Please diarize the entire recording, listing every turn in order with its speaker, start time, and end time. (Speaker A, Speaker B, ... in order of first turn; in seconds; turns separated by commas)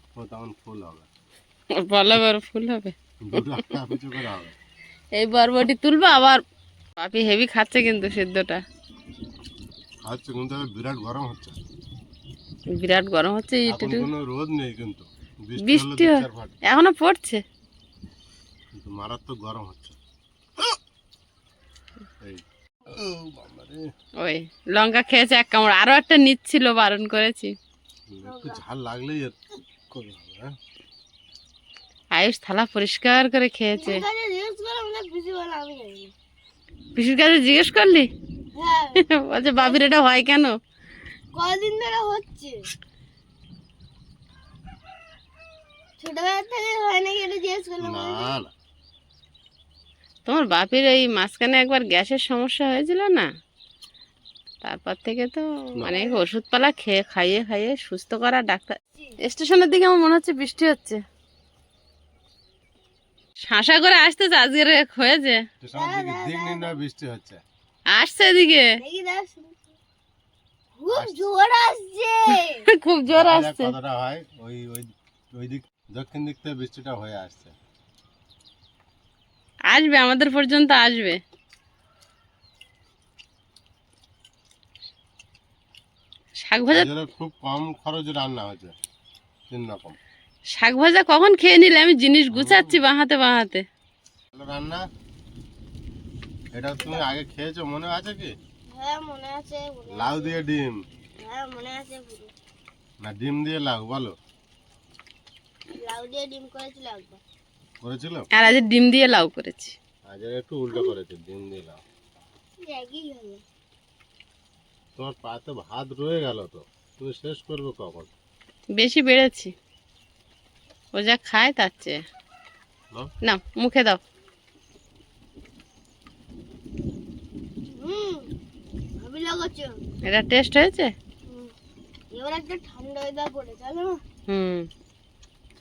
Speaker A: 0.2-1.1, Speaker B: 1.8-3.4, Speaker A: 3.3-4.5, Speaker B: 5.2-6.4, Speaker B: 7.0-8.6, Speaker A: 10.1-11.6, Speaker B: 12.8-14.1, Speaker A: 13.7-16.5, Speaker B: 15.6-17.4, Speaker A: 18.8-20.0, Speaker A: 22.2-23.9, Speaker B: 24.2-27.5, Speaker A: 28.1-29.4, Speaker C: 28.3-28.6, Speaker A: 29.9-30.5, Speaker B: 32.1-34.0, Speaker C: 33.9-36.1, Speaker B: 37.0-38.1, Speaker C: 38.6-39.0, Speaker B: 39.0-40.6, Speaker C: 41.4-42.5, Speaker C: 46.0-48.3, Speaker A: 47.8-48.5, Speaker B: 50.3-53.3, Speaker B: 54.6-61.0, Speaker B: 63.5-65.4, Speaker A: 65.6-67.4, Speaker C: 65.8-66.7, Speaker B: 67.9-68.7, Speaker C: 68.8-69.6, Speaker C: 70.8-72.5, Speaker A: 70.9-71.3, Speaker B: 72.7-73.7, Speaker A: 73.1-77.5, Speaker B: 79.7-81.2, Speaker B: 86.4-86.9, Speaker A: 86.7-88.8, Speaker A: 89.5-90.0, Speaker B: 90.5-93.6, Speaker A: 92.3-92.8, Speaker A: 94.3-94.8, Speaker A: 96.5-98.3, Speaker C: 98.7-100.4, Speaker A: 99.9-100.7, Speaker C: 101.2-102.3, Speaker A: 103.0-104.2, Speaker C: 105.8-107.2, Speaker A: 107.8-108.3, Speaker B: 108.3-109.8, Speaker A: 110.1-111.8, Speaker C: 112.6-113.4, Speaker A: 115.0-118.1, Speaker B: 118.7-119.5, Speaker B: 120.9-122.0, Speaker B: 123.2-124.0, Speaker C: 127.7-128.3, Speaker C: 129.0-129.8, Speaker B: 130.1-130.9, Speaker C: 132.1-134.0, Speaker B: 134.3-134.7